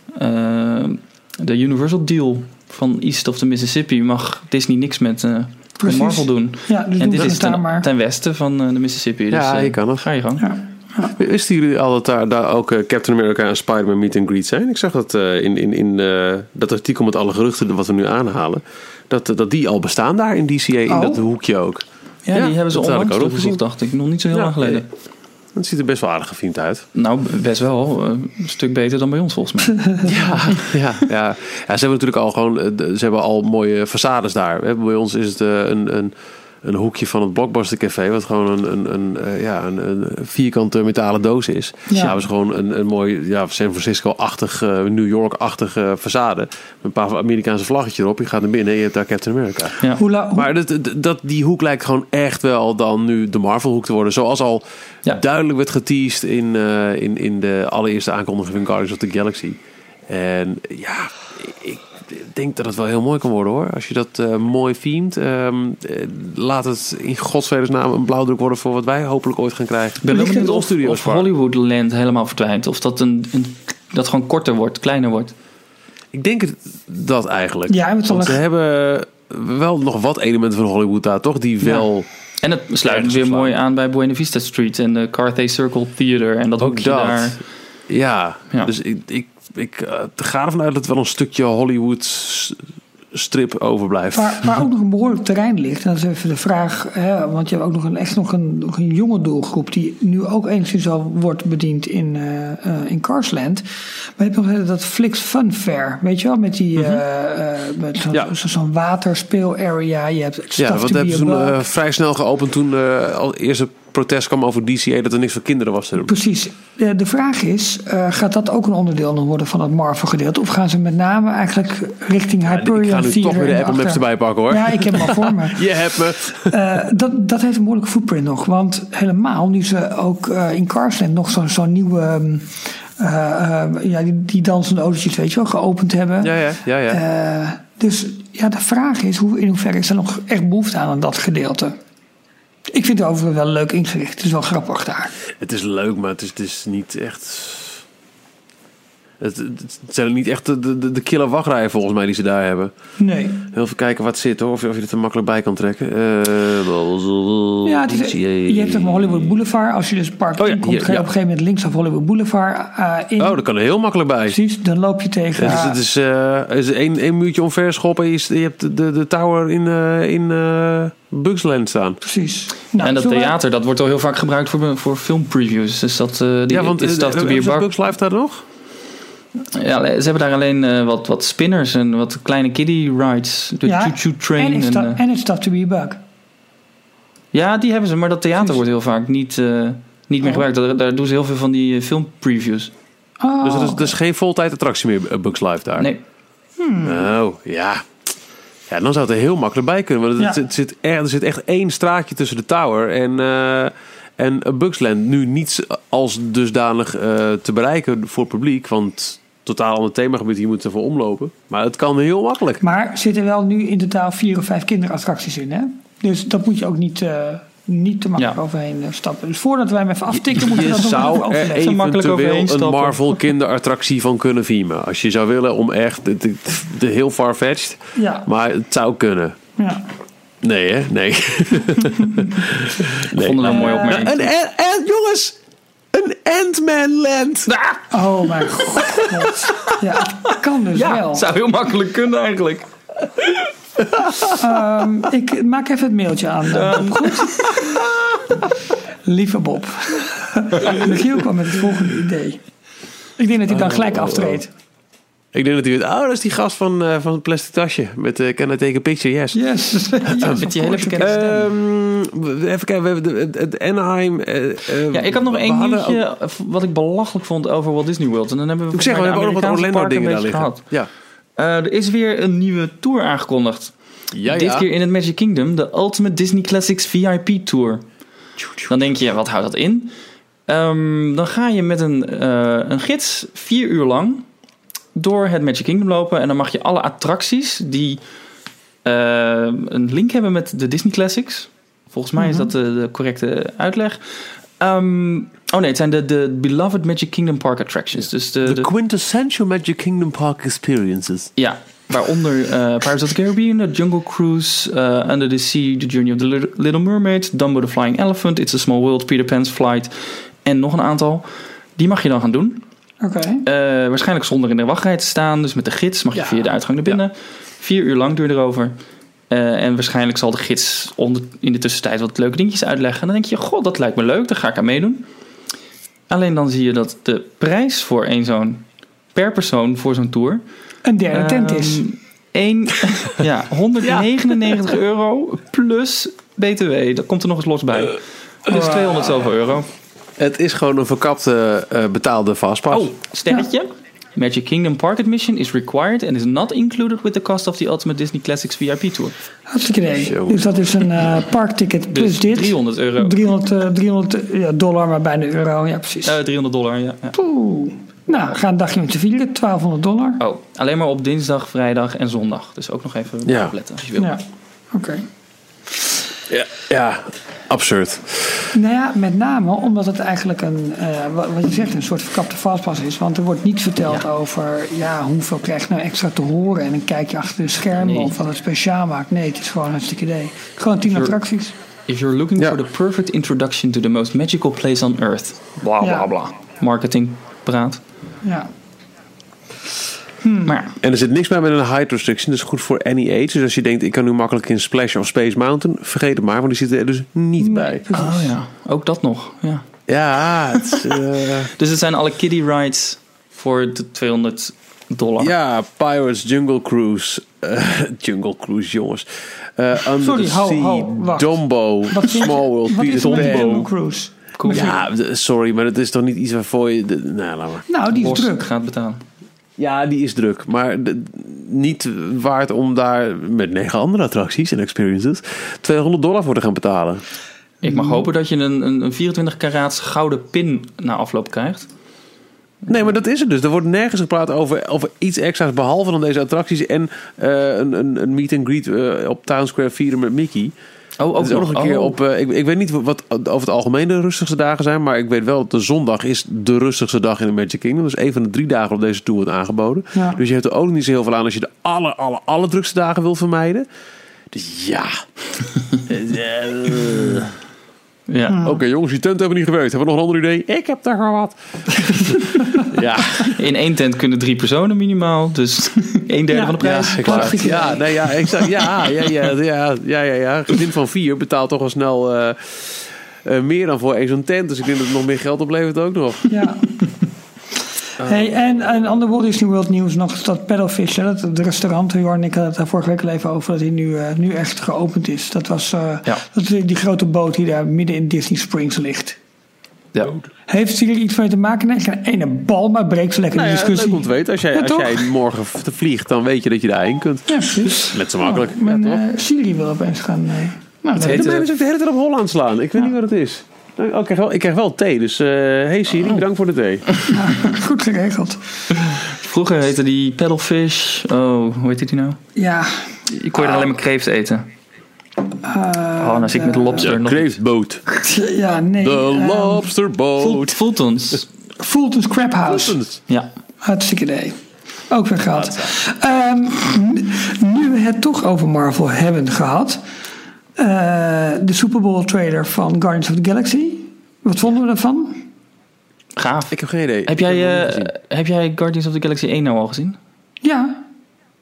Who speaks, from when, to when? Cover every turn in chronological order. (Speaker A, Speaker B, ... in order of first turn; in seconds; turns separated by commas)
Speaker A: 0.1-10.4, Speaker B: 5.8-7.9, Speaker C: 9.3-10.1, Speaker B: 10.4-11.2, Speaker C: 11.2-23.6, Speaker B: 20.9-21.2, Speaker A: 22.3-24.9, Speaker C: 24.3-24.9, Speaker C: 25.5-26.8, Speaker A: 26.9-29.8, Speaker B: 29.8-30.1, Speaker C: 30.0-49.8, Speaker B: 49.9-50.5, Speaker C: 50.3-71.3, Speaker A: 70.0-75.3, Speaker B: 70.1-70.6, Speaker C: 76.1-82.1, Speaker B: 77.7-78.4, Speaker A: 82.4-87.4, Speaker C: 82.8-83.6, Speaker C: 86.6-92.6, Speaker C: 93.1-94.5, Speaker B: 94.1-103.6, Speaker B: 104.2-111.6, Speaker C: 110.6-116.1, Speaker B: 116.0-125.7, Speaker C: 122.5-126.5, Speaker B: 126.5-141.7, Speaker C: 136.2-137.0, Speaker B: 142.7-145.1, Speaker C: 145.3-147.8, Speaker C: 149.2-152.7, Speaker B: 153.0-153.5, Speaker C: 153.5-159.4, Speaker B: 157.6-163.4, Speaker A: 160.4-160.6, Speaker C: 160.6-161.1, Speaker C: 163.2-164.4, Speaker B: 164.3-165.7, Speaker C: 165.3-172.0, Speaker B: 172.0-173.3, Speaker A: 172.8-177.7, Speaker C: 176.5-178.4, Speaker A: 179.5-185.0, Speaker B: 183.6-186.0, Speaker A: 187.3-192.7, Speaker B: 193.2-193.9, Speaker C: 193.4-195.9, Speaker B: 196.6-197.1, Speaker C: 196.8-197.9, Speaker C: 198.7-212.6, Speaker B: 212.6-221.7, Speaker C: 220.1-229.4, Speaker A: 221.5-223.0, Speaker B: 228.0-228.3, Speaker B: 229.6-229.8, Speaker C: 230.4-235.4, Speaker A: 233.1-234.3, Speaker B: 233.4-234.0, Speaker C: 235.9-237.5, Speaker A: 237.5-237.8, Speaker B: 237.9-241.2, Speaker A: 240.7-242.7, Speaker C: 243.8-244.3, Speaker B: 244.3-247.6, Speaker A: 246.4-247.6, Speaker B: 249.1-252.4, Speaker B: 253.2-254.5, Speaker C: 253.5-254.4, Speaker C: 255.3-259.4, Speaker B: 259.3-261.3, Speaker C: 260.1-260.4, Speaker A: 260.2-261.4, Speaker C: 261.0-266.0, Speaker A: 264.9-270.6, Speaker C: 268.7-270.9, Speaker A: 271.4-273.7, Speaker C: 274.1-274.7, Speaker A: 274.2-277.8, Speaker C: 278.4-278.7, Speaker A: 278.7-279.9, Speaker A: 280.5-284.2, Speaker A: 284.9-288.0, Speaker A: 288.8-298.7, Speaker B: 292.2-292.5, Speaker C: 298.0-301.3, Speaker A: 301.4-309.9, Speaker A: 310.4-311.2, Speaker A: 311.8-312.6, Speaker B: 313.0-313.4, Speaker A: 313.4-318.7, Speaker C: 316.1-317.0, Speaker A: 319.3-325.1, Speaker A: 326.1-330.4, Speaker B: 330.8-331.8, Speaker A: 331.1-339.7, Speaker C: 333.8-334.1, Speaker B: 338.5-339.1, Speaker C: 340.2-342.9, Speaker A: 342.7-349.1, Speaker B: 349.5-356.1, Speaker C: 350.0-350.6, Speaker A: 351.9-353.2, Speaker A: 356.0-357.2, Speaker B: 357.1-360.2, Speaker A: 360.2-364.1, Speaker C: 363.2-363.5, Speaker B: 364.7-365.1, Speaker C: 366.3-368.5, Speaker B: 368.5-381.6, Speaker A: 377.8-378.1, Speaker A: 380.9-381.2, Speaker A: 381.9-387.8, Speaker B: 385.8-386.1, Speaker B: 388.2-388.5, Speaker B: 390.2-390.5, Speaker A: 390.4-390.8, Speaker C: 390.8-397.8, Speaker B: 397.4-398.3, Speaker A: 397.9-399.6, Speaker C: 399.9-401.5, Speaker A: 401.6-405.3, Speaker C: 405.2-413.7, Speaker B: 410.0-414.7, Speaker A: 413.1-413.5, Speaker A: 414.4-414.8, Speaker C: 414.5-417.7, Speaker B: 417.7-418.4, Speaker A: 417.9-419.0, Speaker C: 419.6-427.0, Speaker B: 427.6-428.1, Speaker A: 427.6-431.7, Speaker C: 432.7-440.5, Speaker A: 441.0-441.9, Speaker C: 441.2-453.7, Speaker C: 454.3-455.0, Speaker C: 455.9-457.3, Speaker A: 458.1-458.4, Speaker B: 458.3-458.6, Speaker C: 458.4-463.3, Speaker A: 463.3-467.7, Speaker B: 466.3-468.4, Speaker C: 466.8-476.3, Speaker B: 476.3-476.8, Speaker C: 478.0-479.1, Speaker B: 478.0-489.2, Speaker B: 490.5-495.1, Speaker C: 493.3-499.0, Speaker B: 497.3-501.3, Speaker C: 500.9-506.9, Speaker A: 501.0-501.4, Speaker B: 507.1-508.4, Speaker A: 508.8-512.2, Speaker B: 512.4-513.0, Speaker A: 513.1-514.5, Speaker B: 515.4-516.9, Speaker A: 516.0-517.4, Speaker C: 516.8-517.8, Speaker B: 518.0-519.7, Speaker C: 518.8-520.6, Speaker A: 520.2-521.3, Speaker B: 521.6-522.8, Speaker C: 522.4-523.0, Speaker B: 523.6-524.4, Speaker B: 524.9-529.8, Speaker C: 525.3-525.7, Speaker B: 530.5-535.3, Speaker A: 536.2-540.0, Speaker C: 536.5-537.9, Speaker B: 540.4-540.8